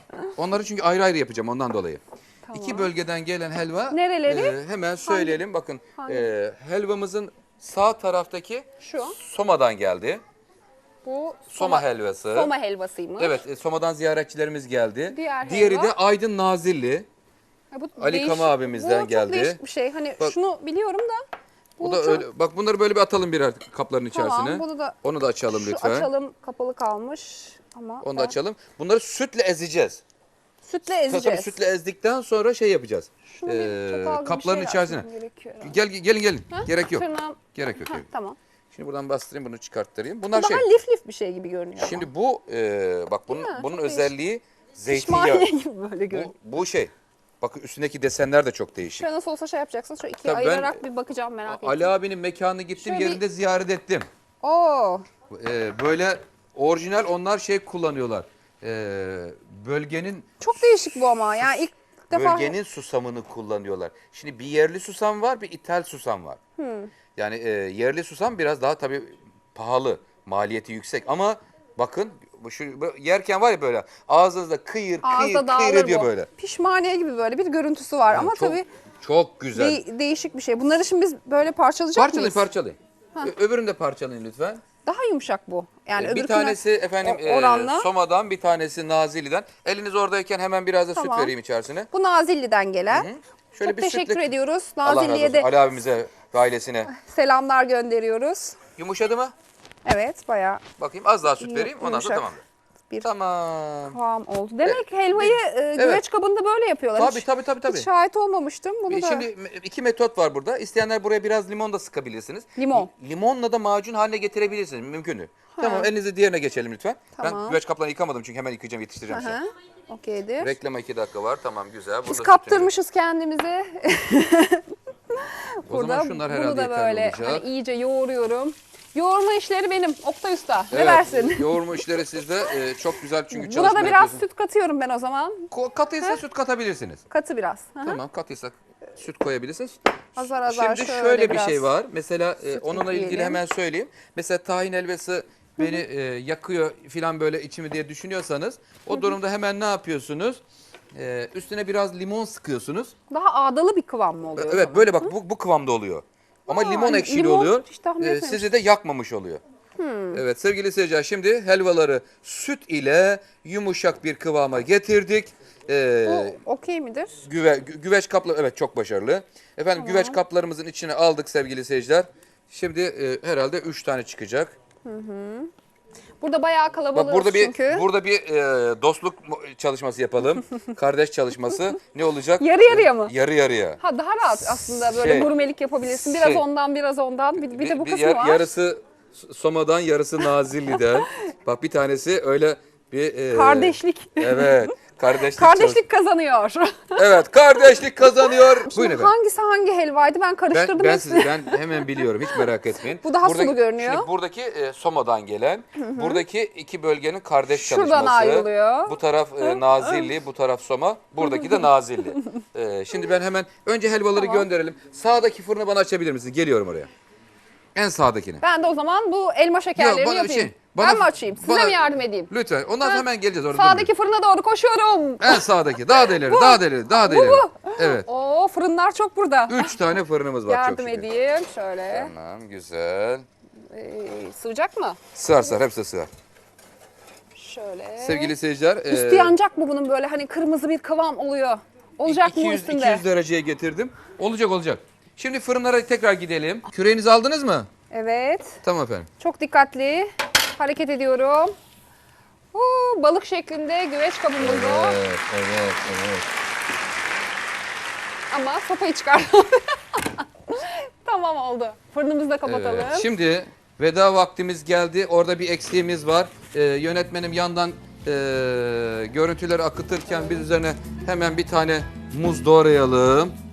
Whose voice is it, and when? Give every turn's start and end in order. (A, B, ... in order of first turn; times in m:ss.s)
0:00.4-0:02.0 A
0:02.5-0:02.9 B
0:02.6-0:10.2 A
0:03.9-0:06.3 B
0:08.8-0:09.2 B
0:11.0-0:13.5 B
0:11.5-0:12.5 A
0:13.2-0:17.1 A
0:15.1-0:16.0 B
0:17.7-0:21.2 B
0:18.0-0:19.6 A
0:21.8-0:22.3 B
0:21.8-0:26.1 A
0:24.1-0:28.4 B
0:28.0-0:30.0 A
0:30.6-0:31.6 B
0:31.0-0:35.1 A
0:33.2-0:35.8 B
0:35.6-0:38.0 A
0:36.5-0:38.4 B
0:38.7-0:40.6 A
0:40.3-0:42.1 B
0:41.8-0:45.5 A
0:43.3-0:44.1 B
0:44.9-0:46.4 B
0:46.1-0:49.1 A
0:48.9-0:52.0 B
0:50.2-0:50.8 A
0:51.5-0:54.1 A
0:52.8-0:53.2 B
0:54.4-0:55.1 B
0:55.2-1:06.4 A
1:00.4-1:02.6 B
1:06.6-1:06.9 B
1:07.1-1:16.3 A
1:15.0-1:18.6 B
1:18.1-1:19.8 A
1:19.6-1:22.5 B
1:22.0-1:24.7 A
1:24.8-1:27.9 B
1:25.9-1:31.9 A
1:30.9-1:31.3 B
1:31.9-1:33.1 B
1:32.9-1:34.3 A
1:33.6-1:35.5 B
1:34.8-1:36.9 A
1:36.8-1:38.7 B
1:38.7-1:39.3 A
1:39.8-1:40.6 B
1:40.8-1:42.4 A
1:41.3-1:42.3 B
1:43.0-1:44.0 A
1:43.9-1:49.3 B
1:44.6-1:46.0 A
1:47.0-1:47.9 A
1:48.9-1:59.4 A
1:52.5-1:52.9 B
1:55.5-1:55.9 B
1:57.1-1:57.6 B
1:59.1-2:00.6 B
2:00.4-2:02.7 A
2:02.0-2:12.7 B
2:05.6-2:07.4 A
2:10.7-2:14.2 A
2:13.3-2:16.2 B
2:15.5-2:17.0 A
2:17.1-2:18.0 B
2:17.8-2:30.4 A
2:20.2-2:21.7 B
2:22.4-2:23.4 B
2:25.6-2:25.8 B
2:28.9-2:29.2 B
2:30.9-2:32.9 A
2:33.1-2:35.2 B
2:34.4-2:39.4 A
2:36.5-2:38.5 B
2:39.8-2:40.2 B
2:40.1-2:46.4 A
2:46.0-2:47.2 B
2:47.2-2:54.6 A
2:49.7-2:50.2 B
2:54.8-2:55.5 B
2:56.2-2:57.9 B
2:56.9-3:03.8 A
3:02.4-3:03.1 B
3:03.8-3:08.6 B
3:04.6-3:05.3 A
3:05.9-3:06.4 A
3:07.4-3:15.8 A
3:10.2-3:11.1 B
3:13.3-3:24.1 B
3:16.9-3:19.1 A
3:20.5-3:36.9 A
3:25.7-3:26.2 B
3:27.5-3:30.1 B
3:31.2-3:32.1 B
3:34.1-3:34.5 B
3:37.7-3:38.4 A
3:38.4-3:49.9 B
3:39.8-3:43.9 A
3:45.2-3:48.0 A
3:49.5-3:51.1 A
3:50.4-3:52.1 B
3:51.9-3:53.2 A
3:53.7-3:55.6 B
3:55.1-3:56.1 A
3:57.3-3:58.4 B
3:58.0-3:59.4 A
3:58.9-4:03.0 B
4:02.0-4:07.7 A
4:07.9-4:08.6 B
4:08.6-4:09.1 A
4:09.2-4:11.5 B
4:12.5-4:15.0 B
4:14.4-4:16.2 A
4:18.3-4:23.1 B
4:22.4-4:33.4 A